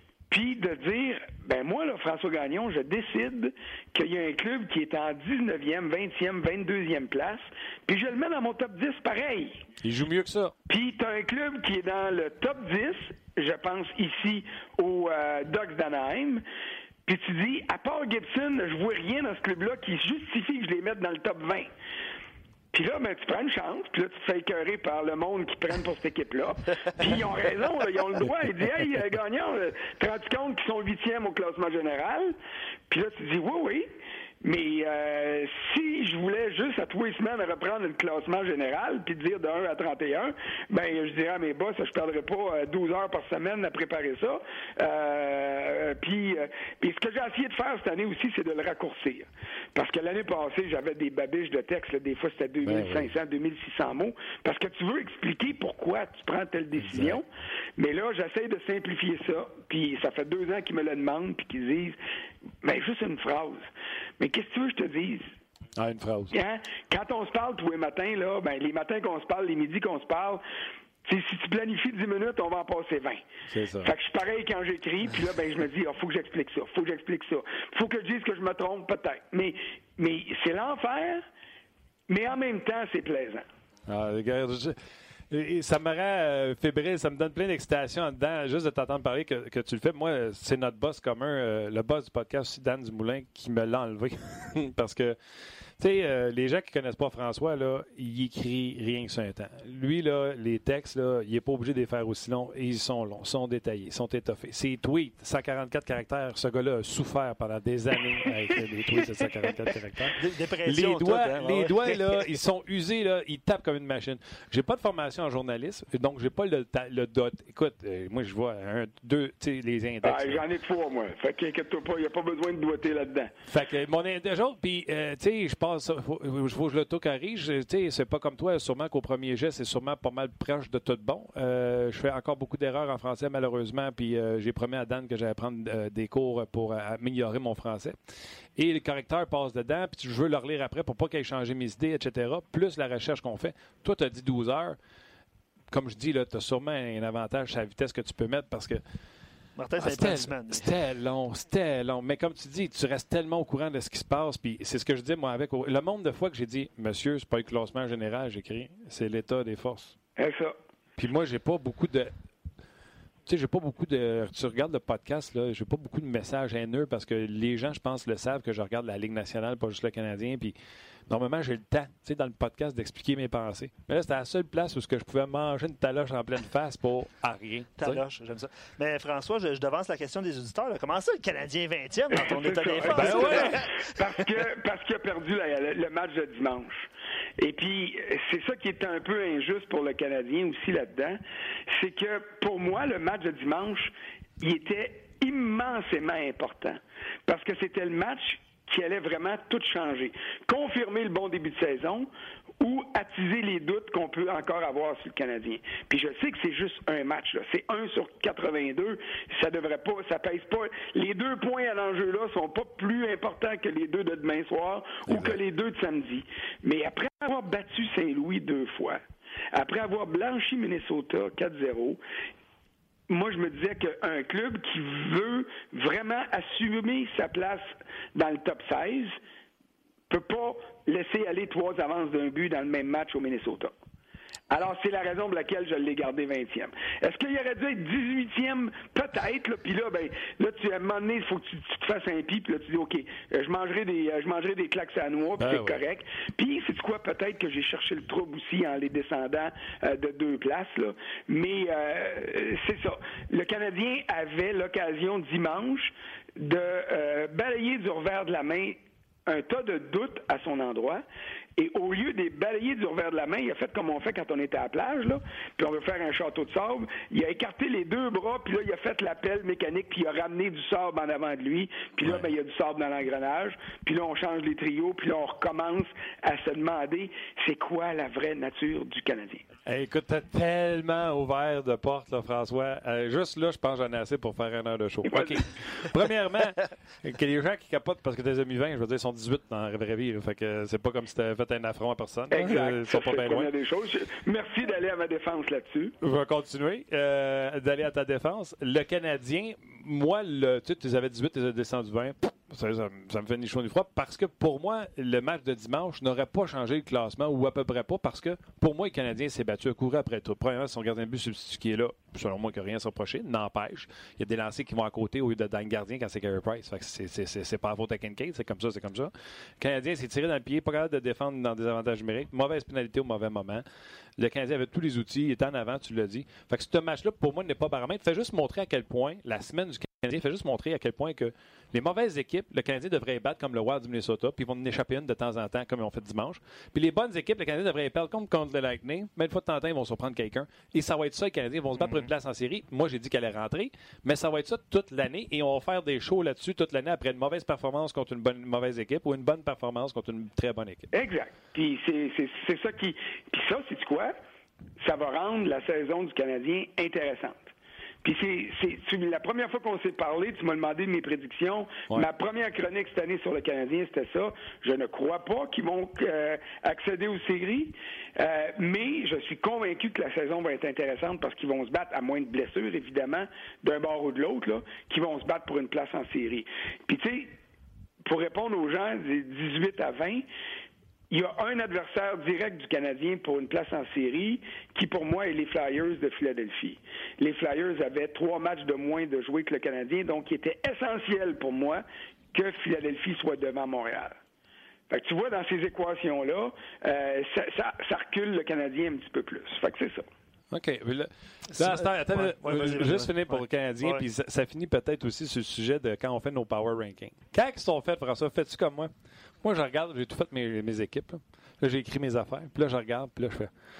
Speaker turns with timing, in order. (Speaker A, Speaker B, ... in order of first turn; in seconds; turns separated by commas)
Speaker A: 0.3-9.7, Speaker B: 9.8-10.5, Speaker A: 10.7-16.4, Speaker A: 17.1-21.7, Speaker A: 22.7-32.4, Speaker A: 32.9-33.9, Speaker A: 34.4-57.2, Speaker B: 52.6-53.1, Speaker B: 56.8-57.2, Speaker A: 57.8-62.0, Speaker A: 62.6-63.7, Speaker A: 64.2-65.3, Speaker B: 65.8-66.3, Speaker A: 66.3-70.4, Speaker A: 71.0-73.2, Speaker B: 73.5-73.9, Speaker A: 73.8-81.2, Speaker A: 82.1-83.5, Speaker B: 83.9-84.8, Speaker B: 85.3-95.2, Speaker B: 95.8-120.4, Speaker C: 110.2-112.3, Speaker A: 120.0-123.3, Speaker B: 123.5-144.8, Speaker B: 145.7-148.8, Speaker C: 149.6-150.7, Speaker B: 149.8-159.9, Speaker A: 160.2-160.6, Speaker B: 161.0-162.1, Speaker B: 163.3-170.6, Speaker B: 171.1-178.0, Speaker C: 177.8-184.3, Speaker A: 182.2-202.1, Speaker B: 182.9-183.6, Speaker A: 202.6-219.0, Speaker B: 215.1-215.4, Speaker A: 219.5-222.0, Speaker A: 223.1-229.2, Speaker A: 230.1-233.7, Speaker A: 234.5-261.0, Speaker B: 245.4-245.8, Speaker A: 261.6-279.4, Speaker B: 279.7-293.5, Speaker A: 285.1-285.9, Speaker A: 292.3-295.9, Speaker B: 296.0-323.6, Speaker B: 324.2-350.9, Speaker C: 341.8-342.1, Speaker A: 350.9-354.2, Speaker A: 354.8-357.5, Speaker A: 358.0-377.4, Speaker A: 378.1-380.2, Speaker A: 381.1-394.2, Speaker A: 394.9-400.1, Speaker B: 400.5-413.5, Speaker C: 401.5-404.1